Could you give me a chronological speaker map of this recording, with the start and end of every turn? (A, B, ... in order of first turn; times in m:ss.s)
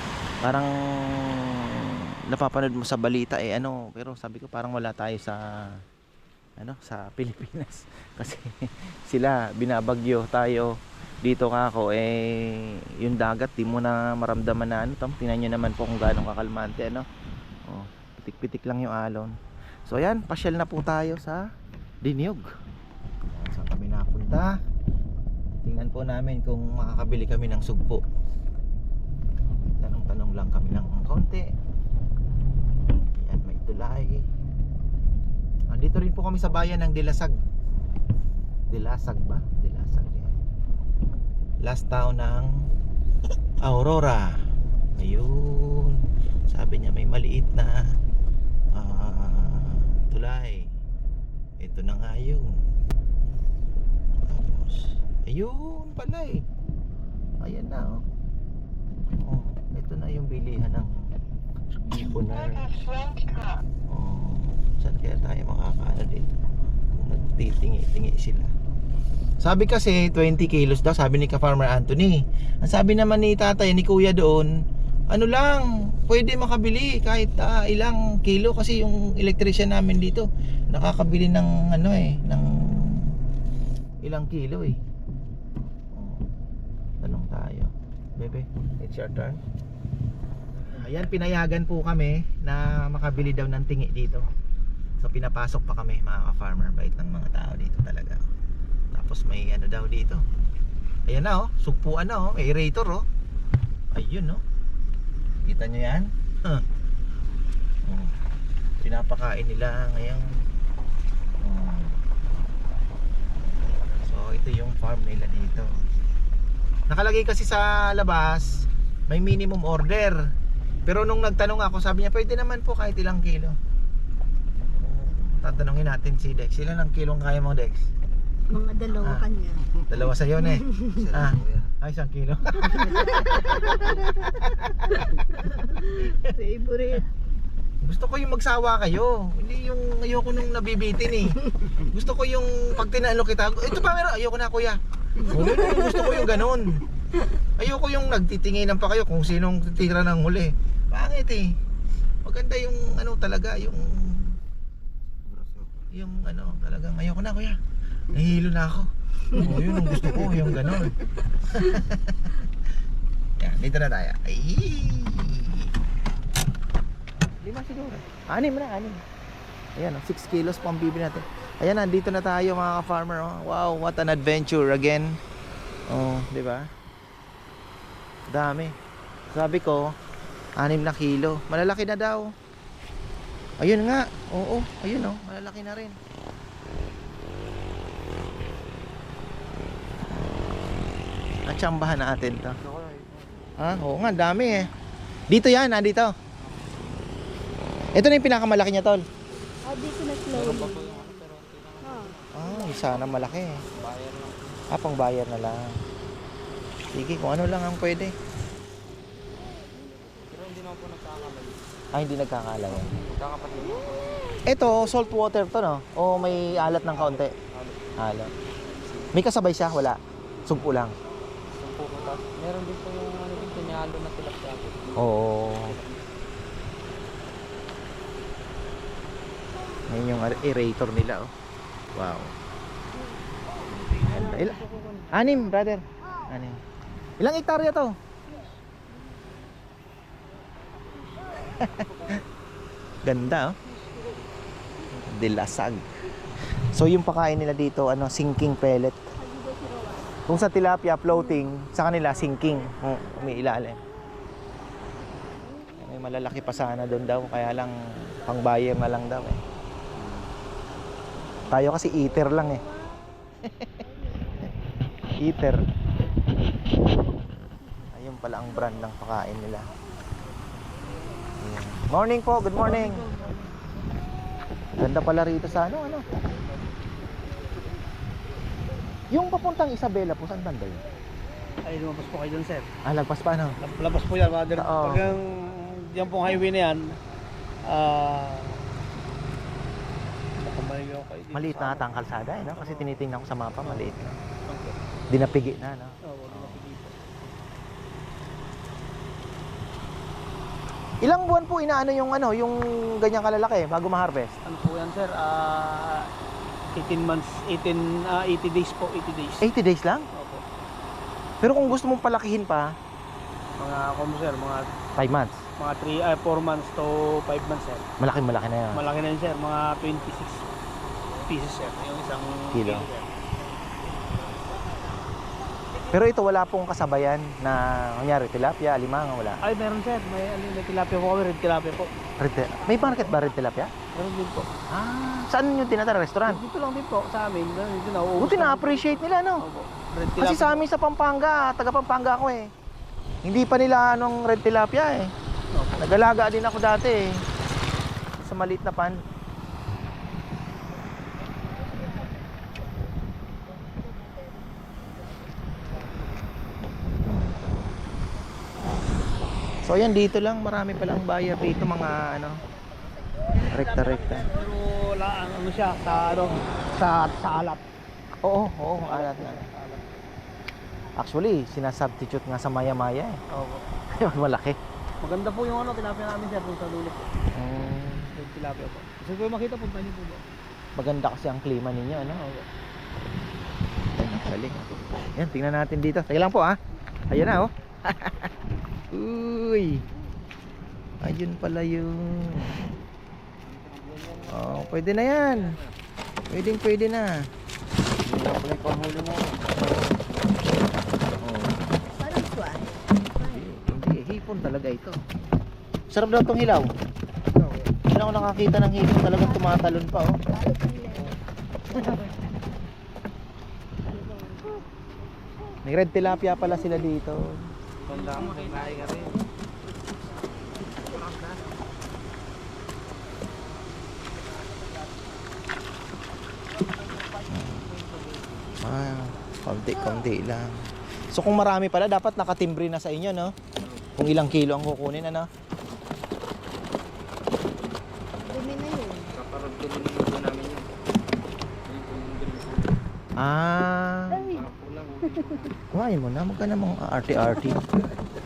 0:00.4-0:05.8 A
0:06.6-0:17.1 A
0:17.7-0:19.4 A
0:19.9-0:21.5 A
0:22.0-0:22.5 A
0:23.3-0:24.6 A
0:25.6-0:28.0 A
0:29.8-0:31.5 A
0:32.9-0:34.3 A
0:35.7-0:37.4 A
0:38.7-0:40.4 A
0:41.6-0:42.5 A
0:43.6-0:44.4 A
0:45.0-0:48.0 A
0:48.7-0:50.7 A
0:51.6-0:52.7 A
0:54.2-0:56.4 A
0:57.4-0:58.0 A
0:59.2-1:01.1 A
1:01.7-1:02.8 A
1:03.8-1:06.3 A
1:06.9-1:08.5 A
1:09.4-1:14.5 A
1:15.1-1:23.2 A
1:24.0-1:24.8 A
1:25.9-1:26.3 A
1:27.0-1:29.4 A
1:30.7-1:34.3 A
1:35.0-1:38.2 A
1:38.9-1:40.2 A
1:41.1-1:43.0 A
1:43.9-1:44.4 A
1:45.4-1:46.6 A
1:47.8-1:48.2 A
1:48.8-1:50.4 A
1:51.4-1:52.0 A
1:53.5-1:55.7 A
1:56.9-2:00.2 A
2:00.9-2:03.6 A
2:04.7-2:07.9 A
2:08.5-2:09.8 B
2:09.9-2:15.1 A
2:10.4-2:11.1 B
2:12.7-2:14.2 B
2:15.0-2:17.1 B
2:17.8-2:26.8 A
2:27.6-2:31.5 A
2:32.2-2:34.4 A
2:35.9-2:37.6 A
2:38.1-2:42.5 A
2:43.4-2:45.7 A
2:47.4-2:49.0 A
2:49.8-2:55.2 A
2:55.9-2:56.7 A
2:58.3-2:58.8 A
2:59.3-3:00.0 A
3:00.6-3:02.3 A
3:03.6-3:06.0 A
3:11.5-3:12.6 A
3:12.6-3:13.5 C
3:13.6-3:14.7 A
3:15.3-3:16.1 A
3:17.9-3:19.0 A
3:19.6-3:21.0 B
3:20.3-3:22.6 C
3:21.8-3:23.2 B
3:22.3-3:23.6 A
3:23.6-3:24.4 C
3:24.7-3:25.8 A
3:26.9-3:28.2 A
3:30.3-3:31.6 C
3:31.9-3:32.9 A
3:32.7-3:34.2 C
3:34.4-3:37.3 A
3:36.4-3:37.9 C
3:38.0-3:38.3 A
3:38.8-3:39.1 C
3:39.1-3:41.0 A
3:41.5-3:45.1 C
3:45.0-3:45.8 A
3:45.6-3:46.0 C
3:49.9-3:51.3 A
3:51.9-3:52.3 A
3:53.7-3:55.4 D
3:54.1-3:54.6 A
3:55.1-3:56.6 A
3:57.2-3:58.0 A
3:58.3-3:59.2 B
4:00.9-4:01.8 B
4:03.0-4:03.6 A
4:05.0-4:05.9 A
4:06.7-4:09.0 A
4:09.2-4:10.2 B
4:10.3-4:13.8 A
4:15.8-4:19.4 A
4:20.0-4:20.2 C
4:21.5-4:22.6 A
4:22.0-4:23.2 B
4:23.8-4:24.4 B
4:25.2-4:25.6 A
4:27.9-4:29.7 A
4:31.4-4:33.1 A
4:32.8-4:33.3 D
4:34.8-4:36.1 A
4:39.1-4:40.8 A
4:41.6-4:42.7 D
4:42.8-4:43.6 A
4:43.6-4:47.0 D
4:44.6-4:45.2 A
4:47.6-4:48.6 D
4:50.4-4:51.9 D
4:51.3-4:54.2 A
4:52.5-4:53.0 D
4:53.6-4:53.9 D
4:54.4-4:54.8 D
4:55.1-4:56.6 A
4:56.0-4:57.3 D
5:01.0-5:04.4 A
5:04.4-5:06.1 D
5:06.8-5:09.5 D
5:09.4-5:10.1 A
5:10.1-5:10.4 D
5:11.4-5:12.8 A
5:13.6-5:14.7 D
5:15.0-5:15.4 A
5:15.6-5:17.8 D
5:18.0-5:18.8 A
5:18.7-5:20.4 D
5:21.3-5:23.1 D
5:22.5-5:22.9 A
5:25.9-5:29.4 A
5:29.4-5:31.9 D
5:32.2-5:33.7 A
5:32.7-5:33.2 D
5:33.9-5:34.5 D
5:34.7-5:36.4 A
5:36.3-5:40.6 D
5:38.2-5:39.4 A
5:40.2-5:42.5 A
5:43.2-5:45.1 A
5:45.5-5:45.9 D
5:45.8-5:47.2 A
5:48.2-5:49.0 A
5:51.7-5:52.1 B
5:57.0-5:57.6 A
5:59.6-6:02.4 A
6:03.3-6:07.6 D
6:03.5-6:04.3 A
6:08.2-6:09.5 A
6:08.8-6:10.0 D
6:11.0-6:13.2 A
6:13.3-6:13.7 D
6:13.9-6:14.6 A
6:15.0-6:17.0 D
6:17.3-6:18.1 A
6:18.1-6:20.2 D
6:20.8-6:22.2 A
6:22.0-6:22.5 D
6:23.7-6:26.6 A
6:27.1-6:28.3 A
6:28.9-6:29.8 A
6:31.0-6:32.6 A
6:33.4-6:35.7 C
6:34.3-6:35.6 A
6:36.3-6:37.3 A
6:38.0-6:39.9 C
6:41.2-6:41.6 A
6:42.0-6:43.5 B
6:43.2-6:45.0 A
6:45.9-6:46.7 A
6:47.3-6:47.8 D
6:47.9-6:50.2 A
6:49.1-6:51.2 B
6:51.7-6:52.1 B
6:51.7-6:52.1 A
6:53.9-6:54.7 B
6:55.6-6:57.3 A
6:56.0-6:56.9 B
6:57.9-6:59.2 C
6:57.9-6:59.2 D
7:00.9-7:01.4 C
7:07.3-7:07.6 A
7:07.4-7:08.5 C
7:08.6-7:10.5 A
7:09.8-7:10.1 B
7:11.1-7:13.4 A
7:13.6-7:13.9 C
7:14.0-7:15.3 A
7:18.3-7:19.1 B
7:19.1-7:20.8 C
7:21.6-7:22.8 C
7:23.2-7:24.3 A
7:24.1-7:24.4 B
7:24.2-7:25.6 C
7:25.7-7:27.6 A